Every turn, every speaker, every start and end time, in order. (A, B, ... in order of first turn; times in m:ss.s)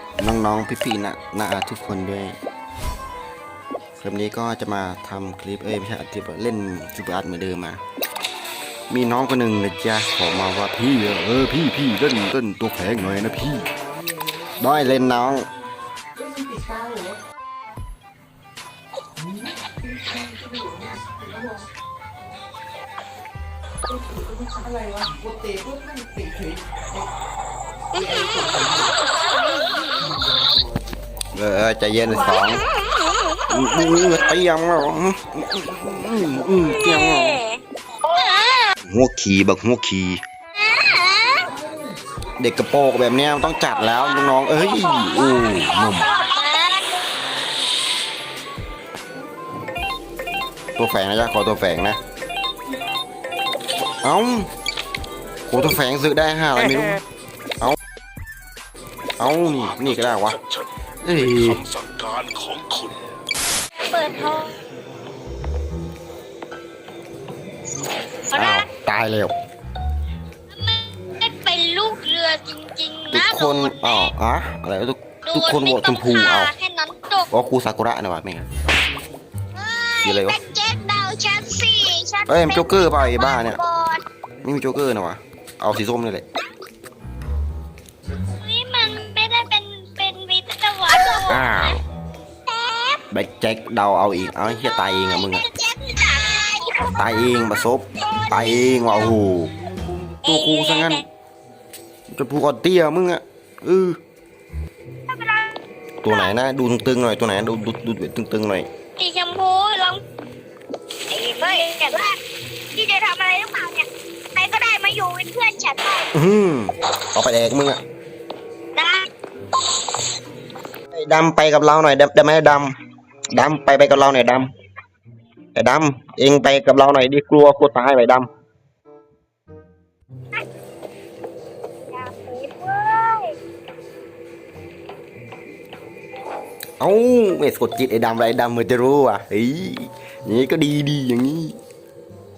0:00.2-0:02.4 A
0:04.0-0:07.8 A
0:08.9-0:13.7 A
0:14.6-0:15.5 A
0:27.9-0:28.8 B
0:31.3-0:32.7 A
0:33.5-0:37.4 A
0:36.7-0:38.7 B
0:38.8-0:40.2 A
0:40.6-0:41.4 B
0:42.4-0:46.1 A
0:43.9-0:47.0 B
0:50.8-0:52.0 A
0:54.0-0:54.5 A
0:55.5-0:57.0 A
0:59.2-1:00.4 A
0:59.6-1:03.0 C
1:01.0-1:01.6 A
1:03.8-1:04.5 B
1:08.3-1:08.7 B
1:08.3-1:09.3 A
1:10.5-1:14.1 B
1:13.1-1:16.5 A
1:15.2-1:17.3 B
1:17.3-1:18.4 A
1:19.6-1:24.0 B
1:20.0-1:20.4 A
1:22.3-1:23.6 A
1:24.4-1:26.2 A
1:28.4-1:31.7 B
1:31.0-1:31.8 A
1:32.5-1:33.0 B
1:33.1-1:35.4 A
1:35.1-1:36.9 B
1:36.8-1:39.5 A
1:38.1-1:39.1 B
1:40.2-1:41.0 A
1:40.2-1:41.0 B
1:42.1-1:44.0 A
1:45.1-1:45.6 B
1:46.0-1:48.7 A
1:49.0-1:50.0 B
1:51.1-1:52.2 B
1:52.7-1:56.1 B
1:56.1-1:57.8 A
1:58.8-1:59.1 B
2:00.9-2:02.7 A
2:03.3-2:04.5 A
2:05.5-2:08.3 A
2:11.9-2:13.3 B
2:16.8-2:21.5 A